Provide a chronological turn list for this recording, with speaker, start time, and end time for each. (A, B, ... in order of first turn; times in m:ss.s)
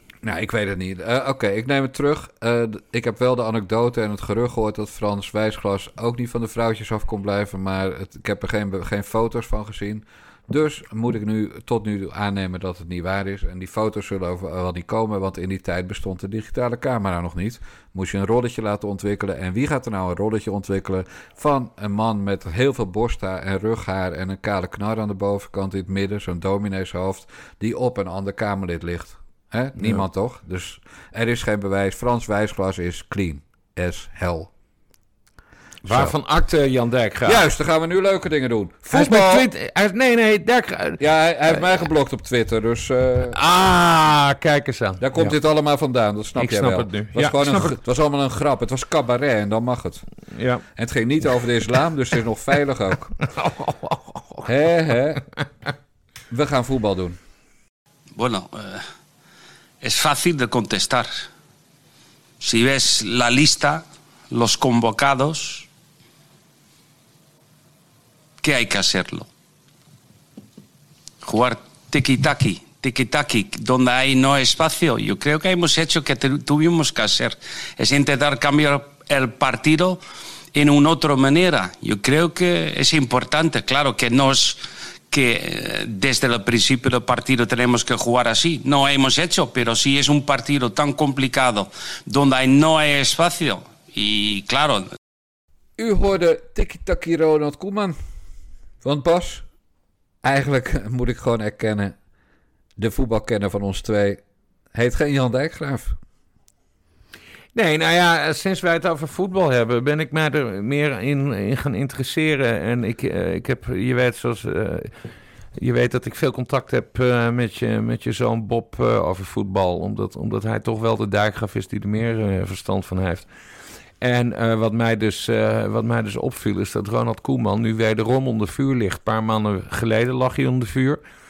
0:00.2-0:34.5 A
0:29.8-0:30.0 B
0:35.8-0:36.1 A
0:35.8-0:37.5 B
0:37.2-0:39.5 A
0:38.9-0:41.0 B
0:41.0-0:43.4 A
0:43.3-0:45.3 B
0:45.0-0:50.0 A
0:46.4-0:47.8 B
0:50.3-0:50.6 B
0:50.8-0:53.1 A
0:53.3-0:54.5 B
0:54.4-0:55.2 A
0:56.3-0:57.2 A
0:58.1-0:58.8 C
0:59.8-1:01.3 C
1:02.4-1:05.7 C
1:08.4-1:09.3 C
1:11.2-1:20.0 C
1:20.5-1:34.9 C
1:35.8-1:38.0 A
1:38.8-1:39.4 A
1:40.2-1:42.0 A
1:42.8-1:44.2 A
1:44.7-1:46.0 A
1:47.5-1:54.9 B
1:55.6-2:03.3 B
2:04.0-2:11.0 B